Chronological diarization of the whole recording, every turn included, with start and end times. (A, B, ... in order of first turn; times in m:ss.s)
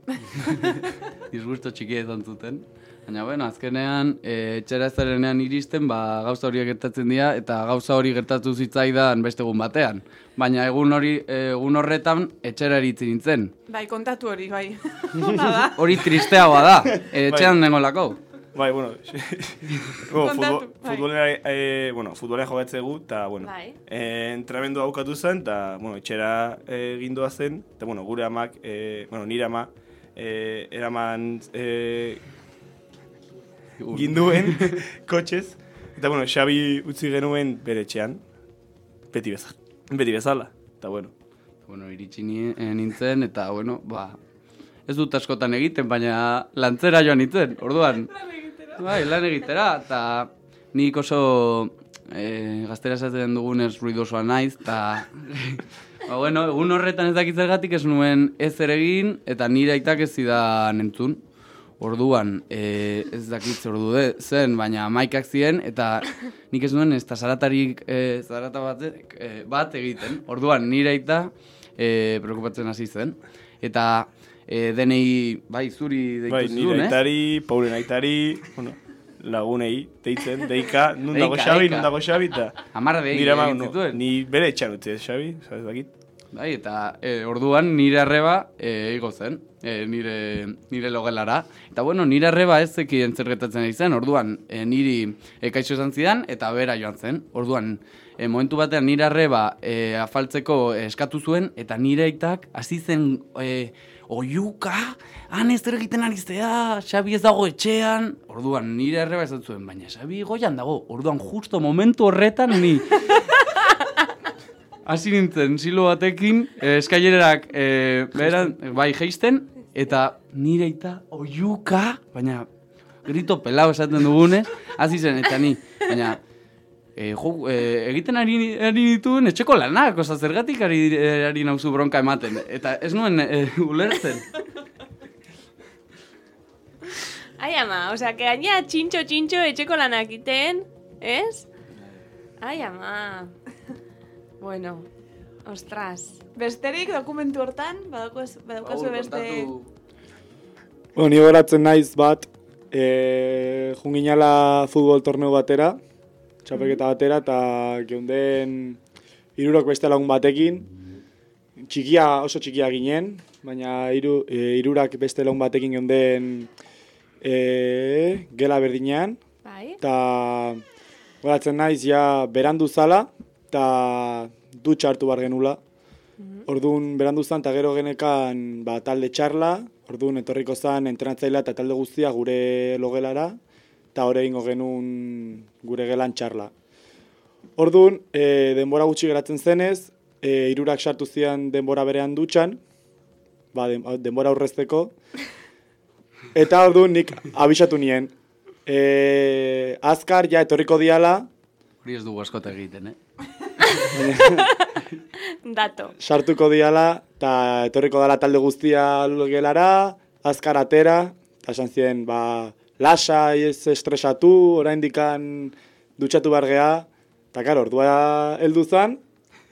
0:00.4-0:13.5 A
0:13.7-0:16.3 B
0:15.7-0:18.2 A
0:17.3-0:17.6 C
0:18.5-0:32.2 C
0:20.2-0:21.1 B
0:23.4-0:23.8 D
0:33.8-0:34.8 A
0:33.9-0:38.2 C
0:39.1-0:41.1 C
0:41.7-0:44.2 A
0:44.9-0:48.1 A
0:48.2-0:48.7 B
0:48.7-1:01.2 A
1:01.8-1:17.0 A
1:16.3-1:25.9 C
1:21.1-1:21.9 A
1:22.7-1:24.0 A
1:26.3-1:53.2 A
1:54.8-2:02.5 A
2:03.0-2:06.2 A
2:07.0-2:14.3 A
2:17.4-2:21.5 D
2:21.8-2:22.0 A
2:22.4-2:23.4 D
2:24.4-2:24.9 D
2:25.4-2:26.2 D
2:26.4-2:29.5 B
2:28.6-2:29.7 A
2:31.0-2:35.8 E
2:36.4-2:38.8 E
2:39.4-2:40.7 E
2:41.6-2:46.5 E
2:47.2-2:49.2 E
2:49.4-2:49.8 D
2:49.8-2:50.6 E
2:51.2-2:55.6 E
2:56.2-2:56.5 D
2:56.5-3:03.4 E
3:03.9-3:06.5 E
3:07.6-3:12.6 E
3:13.5-3:14.9 E
3:16.3-3:18.1 E
3:18.6-3:21.3 E
3:21.8-3:23.0 A
3:23.9-3:24.5 E
3:24.2-3:24.7 D
3:25.4-3:25.9 D
3:26.0-3:39.0 E